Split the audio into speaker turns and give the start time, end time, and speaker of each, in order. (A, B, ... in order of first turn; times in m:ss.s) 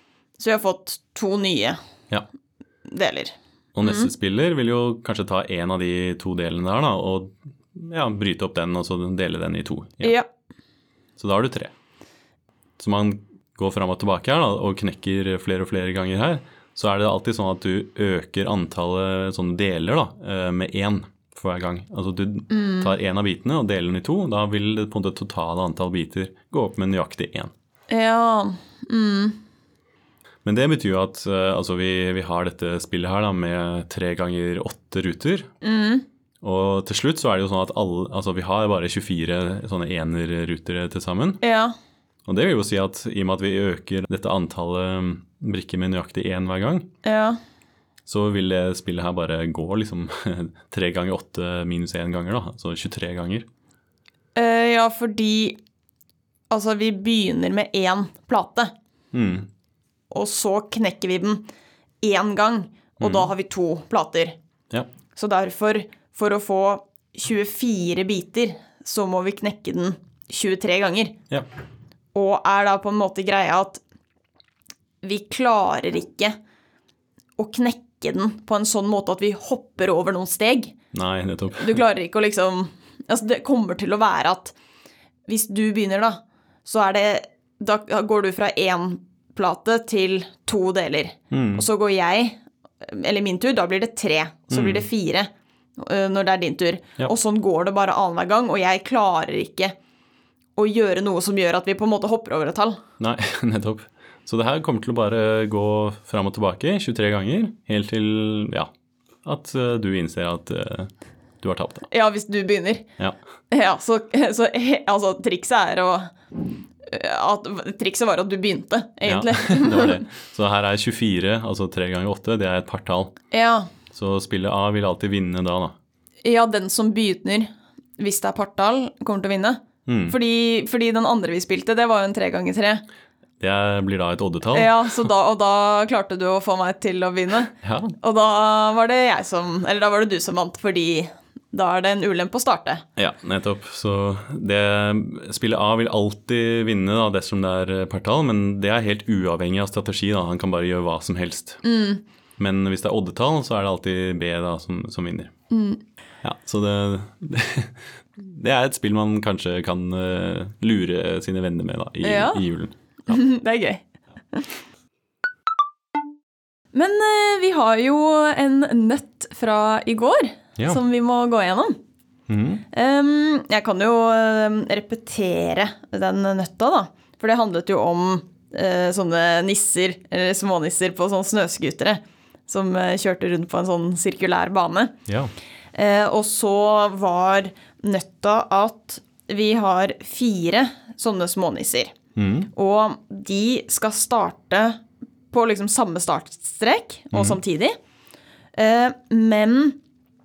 0:00.4-0:01.8 A
0:02.9-0:04.1 A
0:03.8-0:10.2 B
0:10.0-0:10.3 A
0:11.2-0:11.7 B
0:12.8-0:27.5 B
0:22.5-0:23.0 A
0:27.9-0:29.4 A
0:30.4-0:35.5 B
0:35.6-0:36.0 A
0:36.4-0:41.4 B
0:41.4-0:41.7 A
0:42.3-0:46.9 B
0:47.0-0:47.4 A
0:48.1-0:53.5 B
0:54.4-0:55.6 A
0:56.5-0:58.7 A
0:59.1-0:59.5 B
1:00.1-1:01.4 A
1:02.0-1:04.4 A
1:03.0-1:03.3 B
1:05.2-1:11.2 A
1:12.1-1:13.8 A
1:15.0-1:16.4 A
1:17.4-1:20.7 A
1:20.9-1:21.8 B
1:21.6-1:24.5 A
1:25.3-1:39.8 A
1:31.3-1:31.6 B
1:34.5-1:34.9 B
1:40.6-1:42.8 A
1:43.0-1:48.7 B
1:49.2-1:51.9 B
1:51.9-1:52.8 A
1:53.5-1:56.1 A
1:56.8-2:00.1 A
1:59.0-2:03.2 B
2:03.3-2:03.7 A
2:03.9-2:05.7 B
2:06.2-2:12.8 A
2:09.9-2:10.2 B
2:13.4-2:14.9 B
2:14.5-2:22.8 A
2:17.6-2:17.9 B
2:23.0-2:31.6 B
2:31.6-2:32.0 A
2:32.4-2:35.3 B
2:35.5-2:35.8 A
2:36.2-2:43.2 B
2:42.0-2:42.4 A
2:43.1-2:44.5 A
2:46.7-2:51.8 A
2:52.3-2:52.6 B
2:52.7-3:04.9 A
3:05.1-3:05.3 B
3:05.7-3:12.0 A
3:12.2-3:12.5 B
3:12.6-3:14.8 A
3:15.3-3:17.8 A
3:17.1-3:17.4 B
3:18.6-3:19.8 A